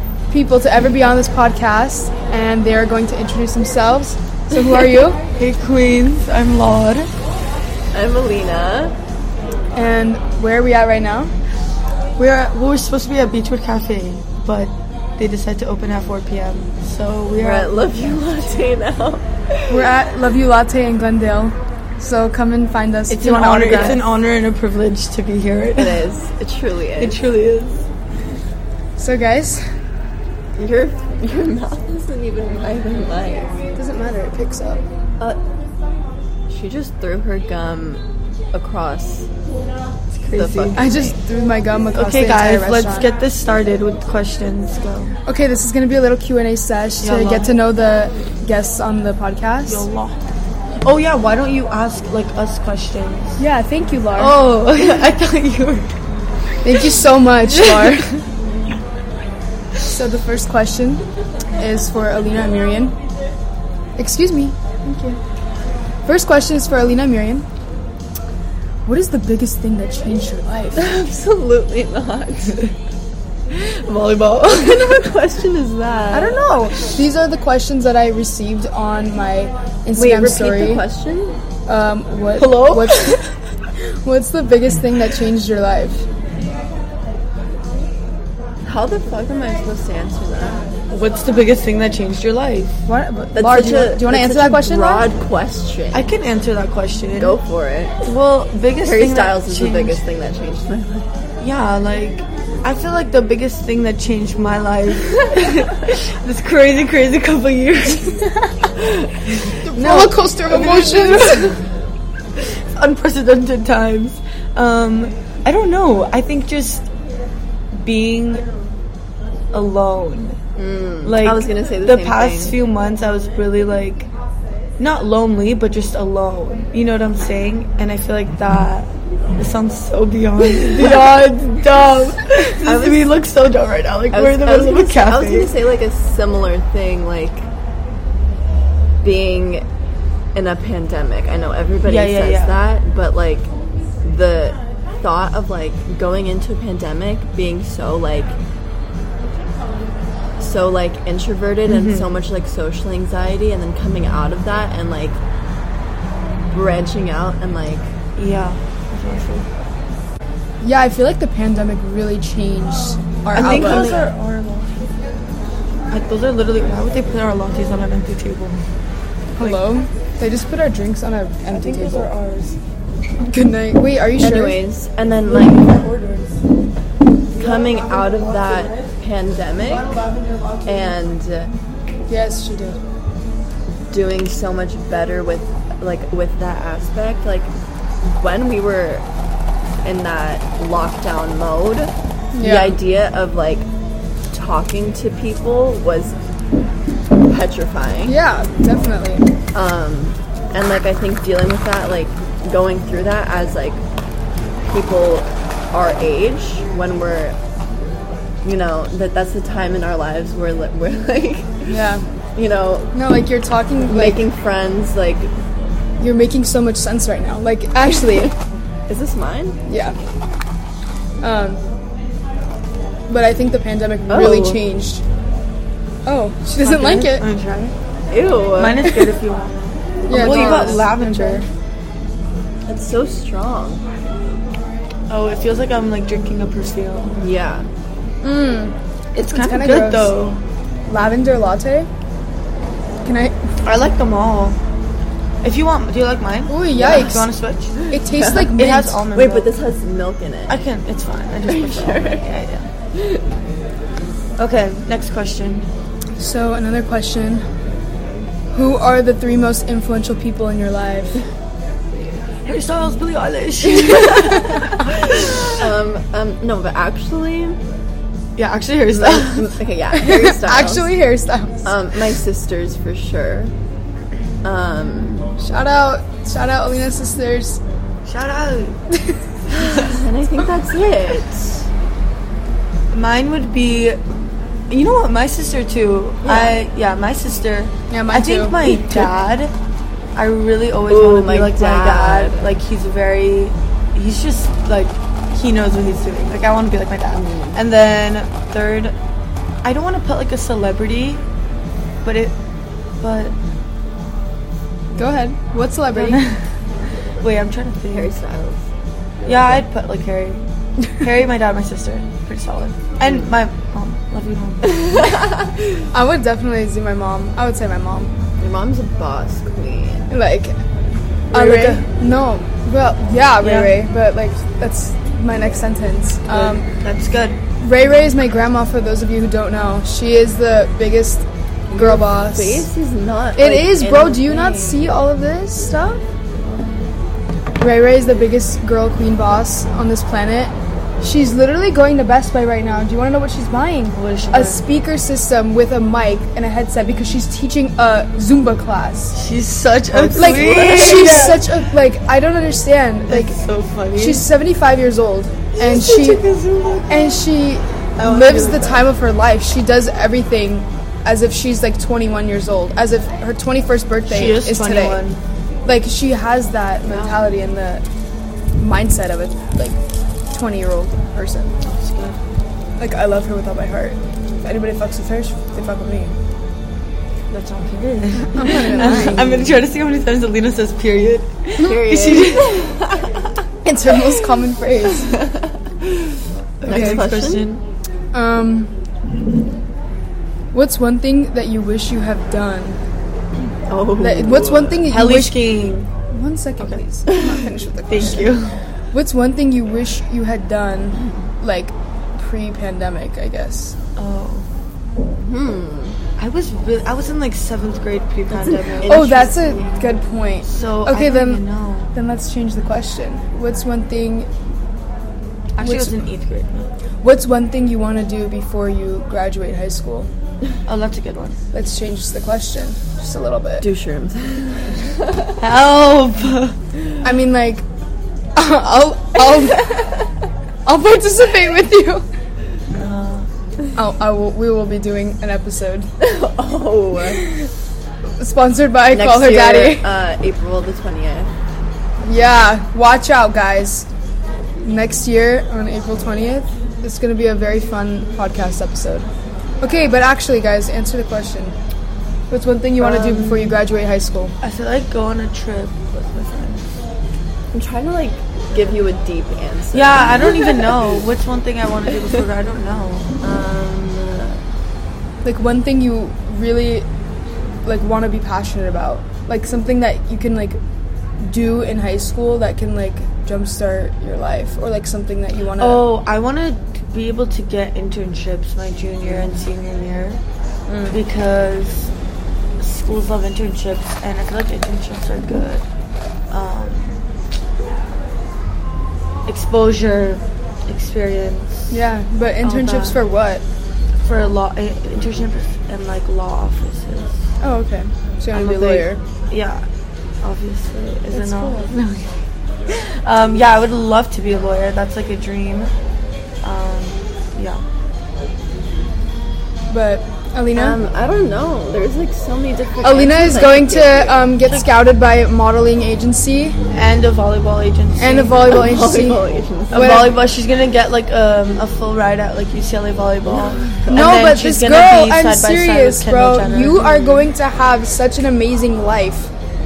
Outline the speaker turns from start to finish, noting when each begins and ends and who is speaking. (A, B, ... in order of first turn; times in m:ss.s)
0:00.3-0:05.2 A
0:04.6-0:07.1 B
0:07.9-0:08.9 C
0:09.7-0:11.3 A
0:12.2-0:17.8 B
0:17.4-0:19.8 C
0:19.7-0:24.0 A
0:23.1-0:26.0 B
0:25.8-0:27.2 C
0:27.0-0:27.8 B
0:29.0-0:29.6 A
0:30.5-0:33.5 C
0:33.8-0:34.8 A
0:36.5-0:39.3 C
0:40.1-0:40.8 B
0:40.3-0:41.2 C
0:40.7-0:43.0 A
0:41.9-0:45.1 B
0:45.3-0:49.9 A
0:47.0-0:47.5 B
0:49.7-0:50.2 B
0:50.8-0:53.4 B
0:53.4-0:54.4 A
0:54.2-0:55.9 B
0:56.6-0:58.2 A
0:57.4-0:58.2 B
0:59.9-1:01.0 A
1:01.6-1:03.0 A
1:04.0-1:05.2 A
1:06.0-1:07.5 A
1:08.8-1:10.9 A
1:10.8-1:12.6 C
1:13.5-1:15.1 B
1:14.4-1:16.4 C
1:16.1-1:20.8 A
1:19.9-1:21.4 C
1:21.7-1:23.2 A
1:22.4-1:23.3 B
1:24.0-1:26.0 A
1:28.6-1:30.6 C
1:30.9-1:32.8 B
1:32.9-1:35.0 A
1:33.3-1:36.1 C
1:35.9-1:37.4 B
1:37.2-1:38.0 C
1:38.0-1:40.0 B
1:38.8-1:41.1 C
1:41.4-1:48.2 B
1:49.3-1:51.6 B
1:49.6-1:51.6 A
1:52.4-1:56.8 B
1:57.7-1:58.4 B
1:59.5-2:00.4 B
2:00.6-2:02.6 C
2:01.0-2:04.1 B
2:04.8-2:15.5 B
2:10.6-2:11.2 C
2:12.6-2:13.1 C
2:14.1-2:17.5 C
2:19.0-2:19.6 C
2:20.3-2:23.5 C
2:21.9-2:22.6 B
2:24.0-2:28.3 C
2:30.4-2:35.2 C
2:31.7-2:32.1 B
2:36.5-2:37.9 C
2:38.2-2:39.5 B
2:40.6-2:44.0 A
2:43.3-2:44.0 C
2:43.3-2:44.8 B
2:45.9-2:48.6 B
2:49.4-2:52.1 A
2:51.5-2:52.6 B
2:53.2-2:54.6 A
2:54.2-2:55.7 C
2:55.2-2:56.4 B
2:57.3-3:00.0 C
2:57.4-2:58.9 B
2:59.6-3:00.7 B
3:00.6-3:01.5 C
3:02.1-3:02.8 A
3:03.9-3:07.5 C
3:08.0-3:09.0 C
3:09.8-3:13.7 C
3:12.3-3:12.8 A
3:14.3-3:16.1 C
3:17.2-3:18.1 C
3:18.0-3:19.2 A
3:19.5-3:23.8 C
3:24.6-3:27.4 C
3:28.4-3:31.7 C
3:31.7-3:32.0 A
3:32.4-3:32.9 C
3:32.9-3:34.2 A
3:33.8-3:35.3 C
3:36.0-3:38.3 A
3:38.9-3:39.6 C
3:39.7-3:40.0 A
3:41.2-3:41.6 A
3:43.1-3:45.0 A
3:44.1-3:44.6 C
3:46.0-3:47.2 A
3:46.6-3:47.7 B
3:48.1-3:48.9 C
3:48.6-3:51.4 B
3:50.1-3:50.8 C
3:50.1-3:51.4 A
3:52.7-3:53.8 C
3:55.1-3:57.2 B
3:57.2-3:57.7 C
3:58.2-4:00.1 A
3:59.1-4:00.4 B
4:00.9-4:01.9 A
4:03.0-4:03.5 A
4:03.6-4:04.6 B
4:05.4-4:07.8 B
4:06.5-4:07.3 A
4:06.8-4:07.1 C
4:07.8-4:08.6 C
4:07.9-4:09.0 A
4:08.5-4:09.5 B
4:09.1-4:10.6 C
4:10.5-4:12.6 B
4:11.4-4:12.2 C
4:12.9-4:13.2 C
4:14.4-4:15.7 B
4:16.2-4:17.4 A
4:18.5-4:21.2 A
4:22.4-4:25.6 B
4:23.9-4:24.8 A
4:24.0-4:27.6 C
4:28.4-4:29.5 B
4:28.9-4:30.9 C
4:29.9-4:31.7 A
4:31.6-4:33.5 C
4:34.4-4:35.3 C
4:35.4-4:37.6 A
4:38.0-4:38.8 B
4:39.5-4:41.7 C
4:42.9-4:44.0 B
4:44.7-4:49.5 B
4:46.2-4:46.6 C
4:47.9-4:49.0 A
4:50.2-4:59.0 B
4:50.9-4:52.5 C
4:57.1-4:57.6 C
4:59.6-5:01.2 B
5:02.0-5:02.3 B
5:03.0-5:03.3 B
5:05.0-5:06.2 A
5:05.9-5:06.4 B
5:07.2-5:08.3 B
5:07.9-5:08.6 C
5:09.2-5:09.6 C
5:09.2-5:10.4 B
5:10.9-5:14.8 B
5:14.6-5:15.8 C
5:15.9-5:18.1 A
5:18.4-5:20.0 C
5:20.1-5:20.6 A
5:21.3-5:21.8 B
5:21.3-5:26.6 A
5:23.4-5:23.7 B
5:26.3-5:27.4 B
5:27.6-5:32.7 A
5:31.7-5:34.9 C
5:33.4-5:36.0 A
5:37.6-5:49.2 A
5:43.9-5:44.6 B
5:49.1-5:51.4 B
5:49.9-5:51.4 C
5:50.2-5:53.4 A
5:53.1-5:54.2 B
5:54.0-5:56.2 A
5:55.6-5:57.2 B
5:56.9-6:05.0 A
5:58.0-5:58.9 B
6:04.1-6:05.2 B
6:05.6-6:07.8 A
6:06.9-6:07.2 B
6:08.6-6:09.8 A
6:10.3-6:11.5 A
6:11.6-6:12.2 B
6:12.8-6:16.2 A
6:17.3-6:22.7 B
6:18.3-6:19.2 A
6:18.9-6:19.6 C
6:21.6-6:23.4 C
6:23.6-6:25.2 A
6:25.0-6:27.6 C
6:26.6-6:27.5 B
6:26.7-6:27.0 A
6:28.1-6:28.7 A
6:30.5-6:32.8 A
6:33.7-6:34.9 C
6:34.0-6:35.4 A
6:34.9-6:35.9 B
6:36.1-6:38.4 A
6:37.9-6:38.5 B
6:38.9-6:43.8 A
6:44.0-6:44.5 B
6:45.2-6:46.0 C
6:46.2-6:49.7 B
6:48.3-6:49.7 C
6:48.8-6:51.4 A
6:50.5-6:51.9 B
6:51.9-6:54.3 A
6:55.6-6:56.7 B
6:55.6-6:55.9 A
6:57.0-7:00.1 A
7:00.7-7:01.4 B
7:01.5-7:03.7 A
7:03.6-7:05.4 C
7:05.4-7:06.5 B
7:07.0-7:07.6 A
7:08.4-7:10.0 A
7:10.6-7:12.0 A
7:12.7-7:13.3 B
7:13.7-7:15.9 A
7:16.0-7:17.2 C
7:18.2-7:19.9 A
7:18.9-7:21.3 C
7:22.0-7:23.9 A
7:24.6-7:29.1 A
7:29.6-7:31.5 A
7:32.3-7:34.3 A
7:32.8-7:33.6 B
7:34.4-7:36.6 B
7:37.5-7:40.7 C
7:39.7-7:44.2 B
7:45.2-7:46.9 A
7:47.6-7:50.6 A
7:51.2-7:55.8 A
7:55.6-8:00.2 B
8:00.7-8:01.0 A
8:00.9-8:01.9 B
8:02.6-8:05.6 B
8:06.3-8:07.0 B
8:09.3-8:11.7 B
8:11.7-8:13.4 A
8:12.4-8:13.0 B
8:14.0-8:17.2 B
8:17.4-8:19.0 A
8:18.3-8:19.6 B
8:20.2-8:22.1 B
8:21.1-8:21.7 A
8:22.7-8:25.7 B
8:26.4-8:27.6 B
8:29.7-8:30.8 A
8:30.5-8:34.3 C
8:32.8-8:36.6 A
8:36.7-8:38.6 B
8:38.0-8:40.1 A
8:38.5-8:40.1 C
8:39.7-8:47.3 B
8:43.2-8:44.2 C
8:43.9-8:49.3 A